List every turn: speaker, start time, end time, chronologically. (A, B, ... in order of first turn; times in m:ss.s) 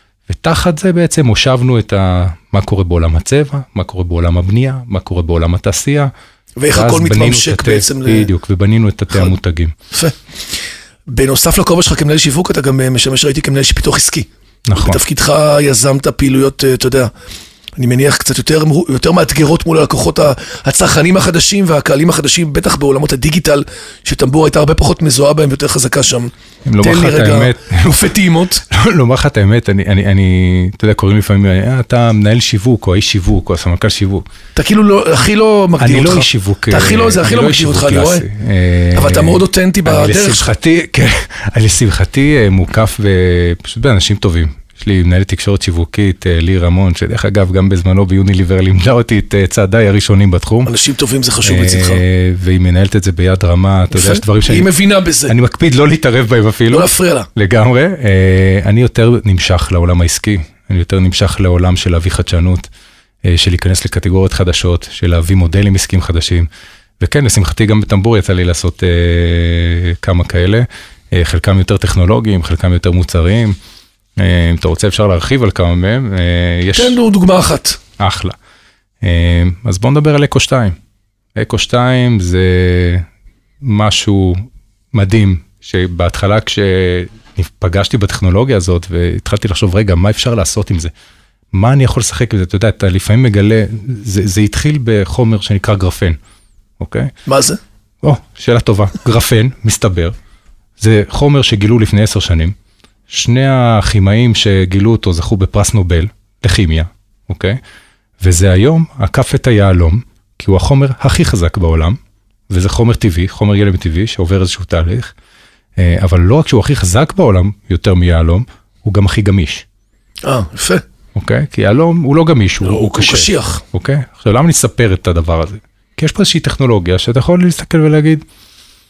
0:00.3-0:06.1 A
0:06.6-0:08.3 B
0:06.7-0:09.8 A
0:11.1-0:17.1 B
0:14.7-0:15.0 A
0:17.8-0:28.6 B
0:26.7-0:28.1 A
0:28.7-0:34.2 A
0:34.6-0:38.3 B
0:35.8-0:50.7 A
0:38.9-0:40.5 B
0:50.6-0:52.0 B
0:51.4-0:54.7 A
0:53.9-0:55.4 B
0:55.3-1:02.7 A
0:56.7-0:57.3 B
1:03.2-1:06.5 A
1:07.0-1:13.6 A
1:14.2-1:17.0 A
1:16.7-1:17.8 B
1:18.0-1:18.4 A
1:19.0-1:20.8 A
1:21.4-1:23.1 A
1:23.6-1:30.9 A
1:31.5-1:36.2 A
1:36.8-1:37.1 A
1:37.3-1:37.6 B
1:38.0-1:40.2 A
1:40.8-1:42.6 A
1:43.1-1:47.6 A
1:48.2-1:52.0 A
1:52.5-1:55.1 A
1:55.8-1:59.6 A
2:00.2-2:00.8 B
2:01.2-2:08.2 A
2:02.6-2:03.6 B